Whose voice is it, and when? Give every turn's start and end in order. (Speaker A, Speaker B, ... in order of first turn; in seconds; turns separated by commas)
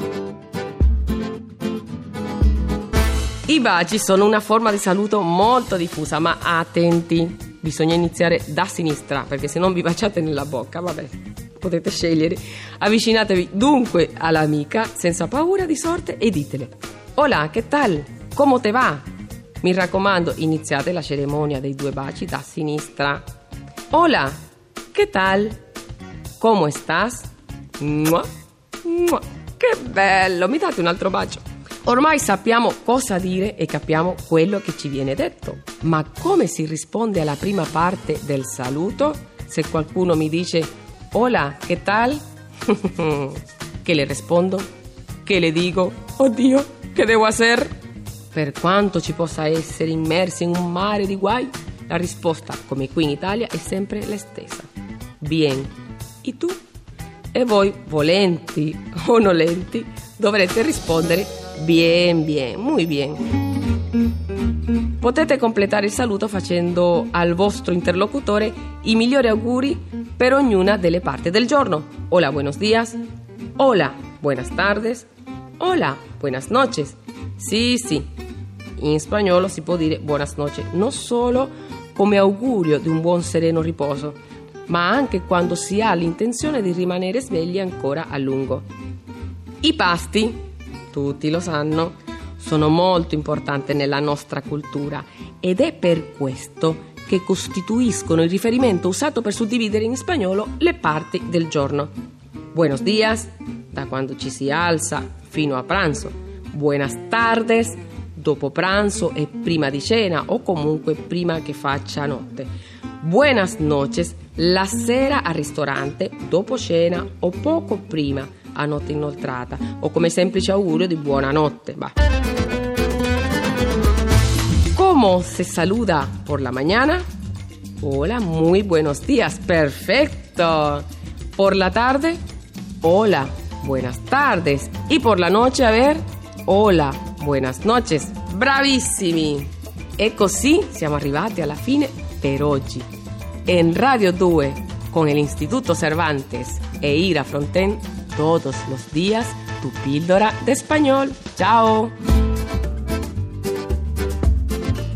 Speaker A: 3.5-19.1, Speaker A: 19.6-23.2, Speaker A: 23.9-24.4, Speaker A: 24.9-25.6, Speaker A: 26.4-28.3, Speaker A: 28.8-44.7, Speaker A: 45.2-47.7, Speaker A: 48.3-54.7, Speaker A: 55.2-56.6, Speaker A: 57.3-63.2, Speaker A: 65.0-73.0, Speaker A: 73.6-75.1, Speaker A: 75.6-78.1, Speaker A: 78.8-88.7, Speaker A: 89.6-101.9, Speaker A: 102.5-122.0, Speaker A: 124.7-127.0, Speaker A: 127.8-132.2, Speaker A: 132.8-142.9, Speaker A: 143.5-151.9